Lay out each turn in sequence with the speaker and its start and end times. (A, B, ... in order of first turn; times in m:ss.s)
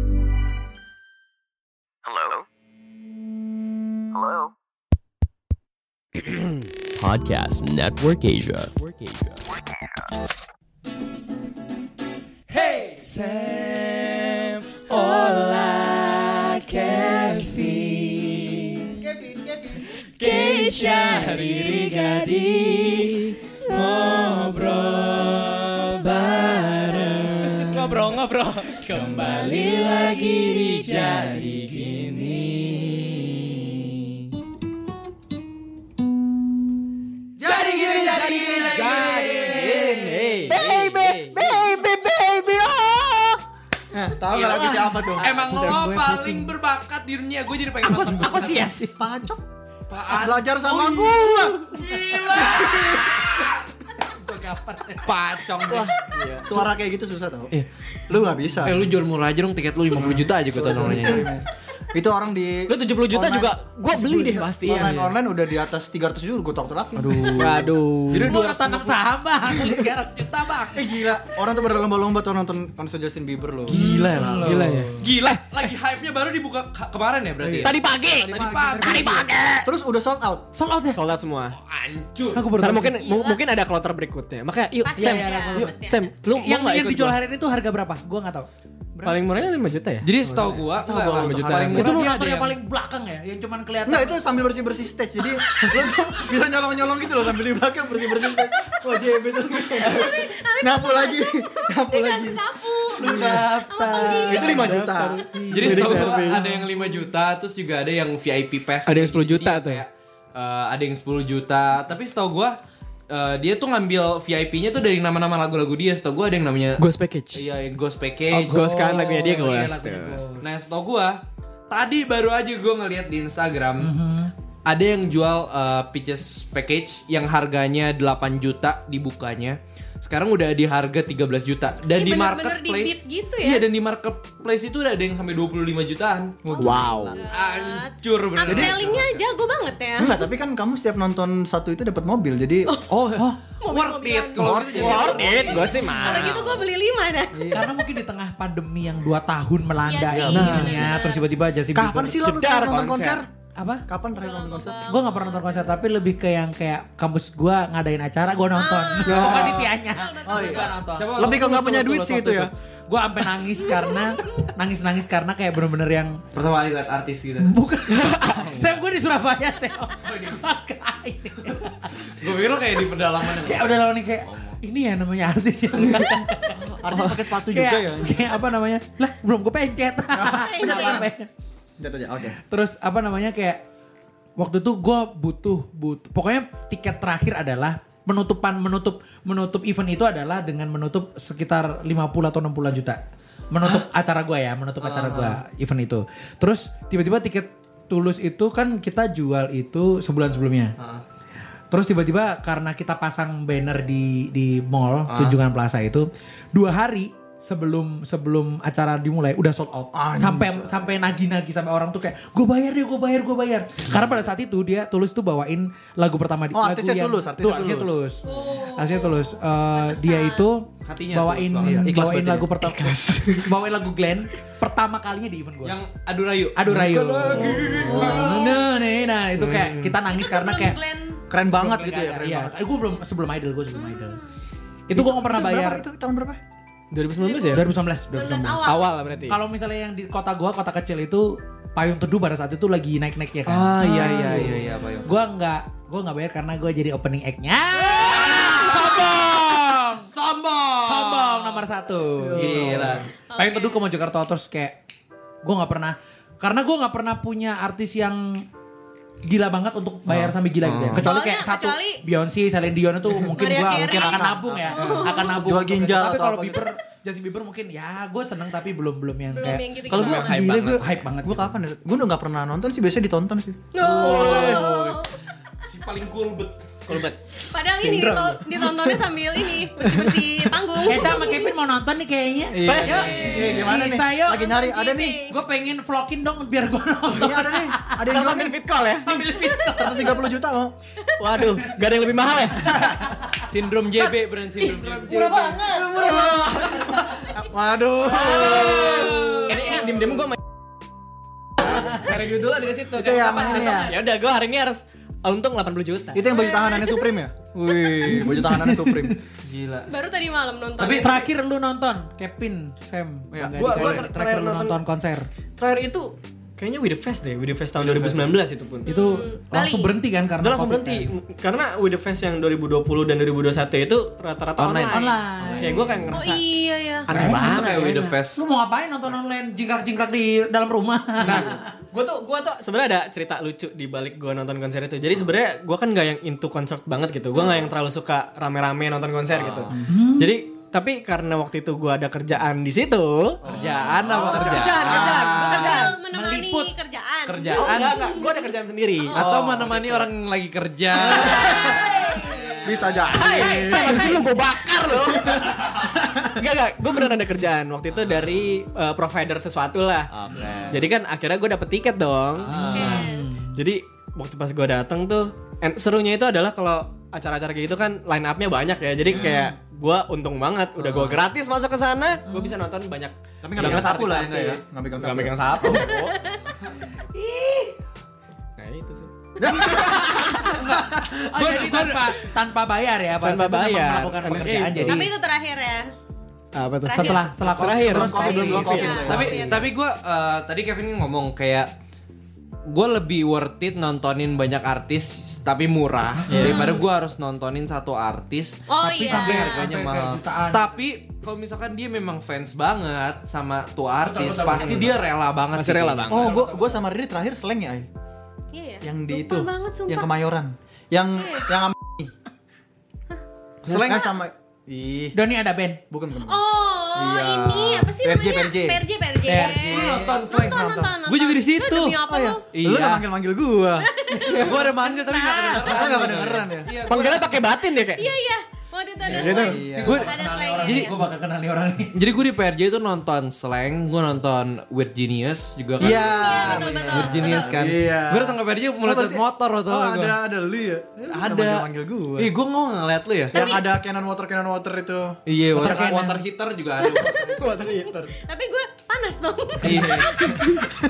0:06.9-0:09.4 A
0:12.5-0:18.9 B
0:19.0-0:19.8 C
0:20.2-0:33.7 B
0:37.4-0:42.7 C
0:37.4-0:39.8 B
0:37.8-0:39.9 D
0:38.1-0:41.6 E
0:41.4-0:43.0 D
0:43.9-0:45.7 C
0:44.3-0:48.8 B
0:44.5-0:46.5 D
0:47.8-0:49.1 D
0:48.0-0:49.4 C
0:49.9-0:53.6 B
0:50.1-0:51.7 C
0:52.3-0:53.2 D
0:53.9-0:55.2 D
0:55.0-0:56.0 B
0:55.7-0:56.4 E
0:56.4-0:57.5 C
0:58.1-0:58.8 C
0:58.6-1:01.3 B
1:00.4-1:07.7 C
1:00.8-1:01.2 E
1:02.7-1:04.9 E
1:04.7-1:05.1 B
1:07.0-1:07.6 B
1:07.3-1:08.3 E
1:08.1-1:09.0 B
1:08.2-1:11.0 D
1:10.7-1:14.5 C
1:13.7-1:19.6 B
1:13.7-1:14.9 D
1:14.4-1:14.9 E
1:17.4-1:20.5 C
1:17.6-1:18.3 E
1:18.8-1:19.2 D
1:20.5-1:21.0 D
1:20.9-1:21.6 E
1:21.6-1:22.5 B
1:22.3-1:23.0 D
1:22.6-1:27.2 E
1:23.0-1:23.4 F
1:24.8-1:26.2 F
1:24.9-1:25.7 D
1:26.3-1:28.5 D
1:28.9-1:29.2 C
1:29.0-1:32.0 E
1:30.0-1:32.5 B
1:30.7-1:32.0 C
1:31.7-1:34.2 D
1:33.8-1:46.2 C
1:39.9-1:44.5 F
1:43.0-1:46.6 D
1:44.3-1:46.5 E
1:45.5-1:59.5 B
1:48.8-1:49.8 E
1:56.8-1:57.4 E
1:58.3-2:00.2 E
1:58.4-2:00.4 D
2:00.4-2:03.9 B
2:03.8-2:04.3 D
2:04.6-2:16.8 B
2:11.9-2:13.7 F
2:16.4-2:17.2 C
2:16.7-2:17.1 E
2:17.1-2:20.2 F
2:17.3-2:19.2 B
2:18.4-2:19.0 C
2:20.0-2:22.7 C
2:22.6-2:22.9 F
2:22.9-2:26.6 B
2:23.6-2:24.5 F
2:24.4-2:25.7 C
2:24.7-2:26.3 E
2:25.7-2:27.3 F
2:27.4-2:27.7 C
2:27.5-2:32.2 D
2:29.8-2:31.2 F
2:30.1-2:30.8 B
2:31.7-2:33.3 C
2:32.2-2:33.2 E
2:33.6-2:33.8 D
2:33.9-2:34.8 C
2:34.1-2:35.8 F
2:34.9-2:46.2 D
2:38.5-2:40.8 F
2:39.0-2:39.7 C
2:40.3-2:42.5 C
2:40.9-2:41.5 B
2:46.3-2:47.5 B
2:47.4-2:51.9 D
2:48.0-2:48.5 E
2:51.9-2:54.6 B
2:53.2-3:01.3 D
2:56.6-2:58.3 C
3:00.1-3:01.1 C
3:00.3-3:01.0 F
3:01.8-3:02.4 C
3:02.5-3:03.6 D
3:04.4-3:13.0 D
3:13.5-3:20.7 D
3:14.8-3:15.4 B
3:20.8-3:21.0 B
3:21.7-3:38.2 D
3:25.1-3:25.4 B
3:29.9-3:31.0 C
3:36.5-3:38.0 C
3:38.2-3:40.5 F
3:38.7-3:45.8 D
3:40.8-3:42.0 B
3:41.6-3:42.5 C
3:42.8-3:43.4 E
3:45.6-3:48.1 B
3:46.5-3:50.8 D
3:47.5-3:47.9 E
3:47.9-3:48.7 F
3:49.4-3:50.0 E
3:50.0-3:51.2 F
3:51.3-3:52.6 C
3:51.4-3:54.2 D
3:53.7-3:54.3 F
3:54.9-3:55.8 D
3:54.9-3:56.4 C
3:56.9-3:57.6 E
3:57.2-3:58.9 F
3:57.5-3:58.8 D
3:58.7-3:59.4 E
3:59.3-4:10.1 D
4:03.5-4:05.1 B
4:07.8-4:11.7 B
4:10.8-4:14.8 D
4:12.3-4:13.1 B
4:12.4-4:12.8 C
4:13.3-4:13.8 F
4:15.4-4:18.4 D
4:19.2-4:31.6 D
4:20.1-4:21.1 B
4:21.0-4:22.0 F
4:23.3-4:25.4 F
4:23.7-4:26.6 C
4:29.3-4:30.3 F
4:29.9-4:33.6 C
4:29.9-4:30.8 B
4:33.7-4:35.1 F
4:33.8-4:35.0 B
4:34.2-4:34.5 E
4:35.6-4:37.0 B
4:36.9-4:37.2 E
4:37.4-4:41.4 F
4:37.8-4:38.9 C
4:39.8-4:40.2 C
4:40.8-4:48.0 D
4:42.5-4:45.1 C
4:42.6-4:43.1 E
4:43.0-4:43.7 F
4:44.4-4:45.3 F
4:47.1-4:48.6 C
4:48.1-4:49.2 E
4:49.0-4:50.2 D
4:49.8-4:50.7 C
4:51.2-4:52.7 E
4:52.0-4:53.1 C
4:53.4-4:55.7 B
4:54.6-4:56.1 D
4:55.1-4:59.4 C
4:56.0-4:56.6 E
4:58.2-4:59.9 B
4:58.2-5:00.4 E
5:01.6-5:06.2 E
5:02.9-5:03.9 C
5:02.9-5:03.9 B
5:06.1-5:09.1 C
5:06.3-5:07.1 F
5:08.0-5:09.1 D
5:09.4-5:09.9 B
5:09.8-5:11.3 F
5:10.8-5:11.1 B
5:11.0-5:15.2 D
5:13.3-5:14.0 C
5:13.5-5:14.8 E
5:15.6-5:18.9 E
5:17.8-5:18.4 C
5:18.8-5:19.9 F
5:18.9-5:21.0 D
5:20.4-5:26.4 E
5:24.6-5:25.1 B
5:24.9-5:26.1 D
5:26.1-5:27.1 F
5:27.0-5:28.0 E
5:27.1-5:31.7 D
5:27.2-5:28.4 B
5:31.2-5:45.9 E
5:39.3-5:39.7 B
5:39.8-5:40.3 D
5:43.4-5:45.9 B
5:43.5-5:43.9 D
5:44.8-5:45.3 C
5:45.0-5:49.2 F
5:46.1-5:46.7 D
5:47.2-5:48.0 B
5:47.5-5:50.1 E
5:49.1-5:51.8 B
5:51.0-5:51.7 C
5:51.0-5:51.5 E
5:51.7-5:52.5 F
5:52.6-5:54.0 C
5:53.1-6:00.1 E
5:53.3-5:54.6 F
5:57.9-5:58.5 B
6:00.1-6:00.9 B
6:00.3-6:00.6 D
6:00.7-6:02.7 E
6:02.4-6:03.0 B
6:02.6-6:03.6 D
6:02.7-6:03.3 F
6:03.5-6:16.1 E
6:09.1-6:09.3 B
6:09.1-6:09.5 D
6:10.8-6:11.2 B
6:12.3-6:12.5 D
6:13.4-6:15.7 C
6:15.8-6:16.5 F
6:17.0-6:17.7 D
6:18.6-6:19.1 E
6:19.4-6:21.0 C
6:19.9-6:25.1 D
6:20.5-6:22.2 B
6:23.2-6:25.0 E
6:24.9-6:25.9 F
6:26.5-6:28.2 E
6:26.8-6:27.4 F
6:26.9-6:29.4 D
6:27.6-6:29.3 C
6:28.1-6:29.7 F
6:28.7-6:31.7 B
6:32.7-6:46.3 B
6:36.1-6:36.8 D
6:36.3-6:36.6 C
6:38.7-6:39.7 F
6:38.8-6:40.8 D
6:44.0-6:45.0 D
6:45.5-6:46.2 E
6:46.1-6:47.9 C
6:46.1-6:46.8 D
6:48.5-6:50.1 F
6:48.8-6:52.1 C
6:51.2-6:51.5 F
6:53.6-6:55.2 C
6:53.7-6:54.0 D
6:55.1-6:55.8 D
6:55.9-6:56.4 C
6:56.2-7:02.4 F
6:56.9-6:58.8 C
6:59.2-7:00.2 D
6:59.6-7:02.0 B
7:00.5-7:00.9 C
7:02.0-7:03.9 C
7:02.5-7:03.0 B
7:03.8-7:04.4 F
7:04.2-7:06.2 D
7:04.3-7:07.3 B
7:05.6-7:06.7 C
7:06.8-7:08.1 E
7:07.6-7:11.0 F
7:09.2-7:11.9 D
7:09.2-7:09.6 E
7:09.3-7:10.0 C
7:09.7-7:10.9 B
7:11.9-7:20.2 B
7:15.8-7:22.3 C
7:15.9-7:17.5 F
7:21.1-7:23.4 B
7:23.3-7:25.2 C
7:23.4-7:23.6 F
7:25.2-7:27.4 B
7:25.5-7:26.2 D
7:26.8-7:28.1 E
7:26.9-7:27.1 C
7:28.2-7:30.6 F
7:29.6-7:30.1 D
7:29.6-7:30.1 B